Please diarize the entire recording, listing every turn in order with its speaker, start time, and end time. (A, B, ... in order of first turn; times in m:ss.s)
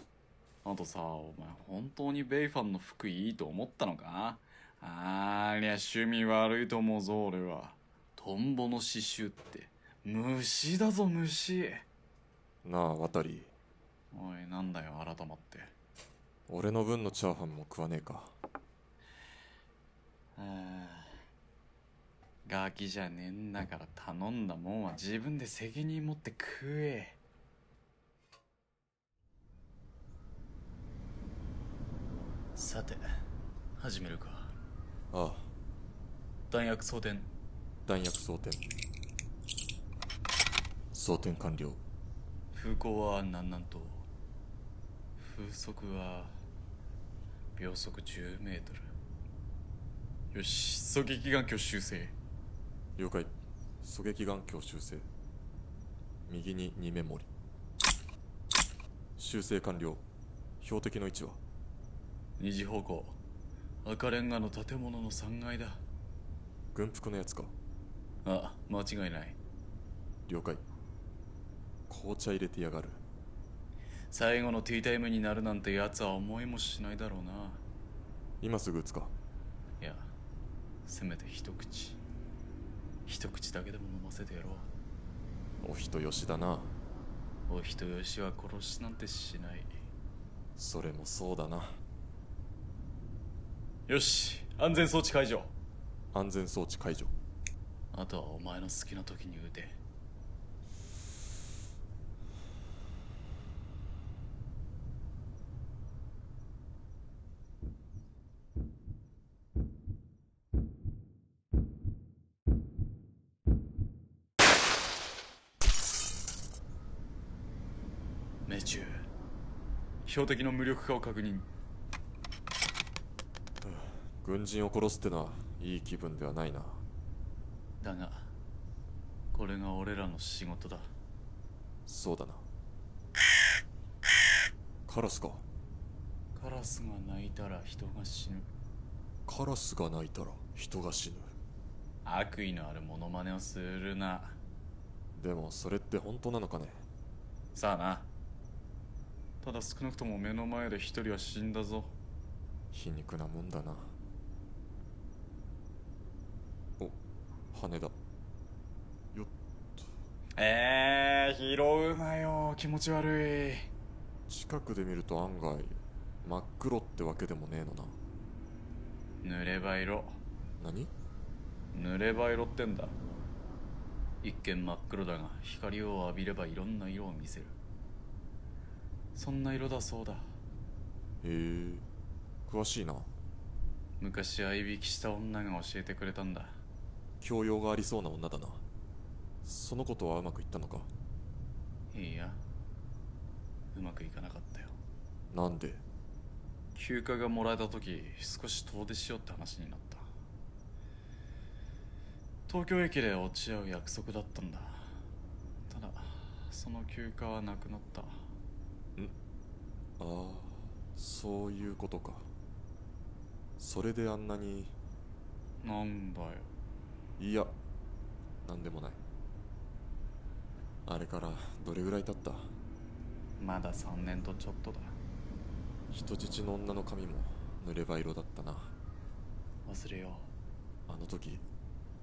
0:00.6-0:11.8 A
0:12.6-0:13.5 B
0:14.1-0:15.7 A
0:16.5-0:18.3 B
0:20.4-0:21.1 A
0:22.4-0:27.2 A
0:32.5-0:33.0 A
0:33.8-0:34.5 A
0:35.1-0:35.5 B
0:36.5-0:37.3 A
0:37.8-0:38.6 B
0:40.9-0:41.8 B
0:42.5-0:44.0 A
0:45.2-0:46.4 A
0:47.6-0:48.9 A
0:50.3-0:52.1 A
0:53.0-0:55.1 B
0:56.3-0:57.3 B
0:59.2-1:00.0 B
1:00.6-1:01.4 B
1:02.4-1:03.2 A
1:03.8-1:05.8 A
1:06.7-1:07.5 B
1:08.2-1:09.4 A
1:10.3-1:10.6 B
1:11.9-1:13.0 B
1:14.1-1:17.6 A
1:18.4-1:19.1 B
1:19.8-1:20.1 A
1:20.8-1:22.0 A
1:23.1-1:24.7 A
1:25.6-1:26.7 B
1:27.5-1:29.7 A
1:30.6-1:31.8 B
1:33.9-1:35.5 A
1:36.1-1:37.1 B
1:37.9-1:39.8 A
1:58.4-1:59.0 A
2:00.0-2:01.5 A
2:03.6-2:06.8 B
2:07.8-2:08.3 A
2:09.3-2:10.9 A
2:11.8-2:12.4 B
2:14.8-2:15.4 B
2:16.3-2:18.5 A
2:19.2-2:21.3 B
2:22.0-2:24.4 A
2:25.1-2:26.8 B
2:27.5-2:28.1 A
2:29.4-2:31.9 A
2:32.7-2:33.9 B
2:37.5-2:37.9 B
2:39.1-2:39.9 B
2:40.4-2:43.7 A
2:44.3-2:48.0 B
2:49.2-2:50.2 A
2:50.6-2:50.9 B
2:51.7-2:53.0 A
2:54.2-2:57.6 A
2:59.1-3:00.3 A
3:01.2-3:01.9 B
3:02.4-3:03.1 B
3:04.0-3:06.6 A
3:07.2-3:08.6 B
3:09.4-3:10.9 B
3:11.9-3:12.4 A
3:13.7-3:14.8 A
3:15.3-3:15.8 B
3:16.7-3:20.1 A
3:22.5-3:25.0 A
3:25.7-3:28.3 A
3:30.0-3:32.3 B
3:33.6-3:34.7 B
3:35.6-3:36.5 A
3:37.2-3:37.5 B
3:38.4-3:39.0 B
3:40.8-3:42.5 B
3:43.4-3:45.0 A
3:45.9-3:48.7 B
3:49.6-3:50.3 A
3:50.9-3:51.4 B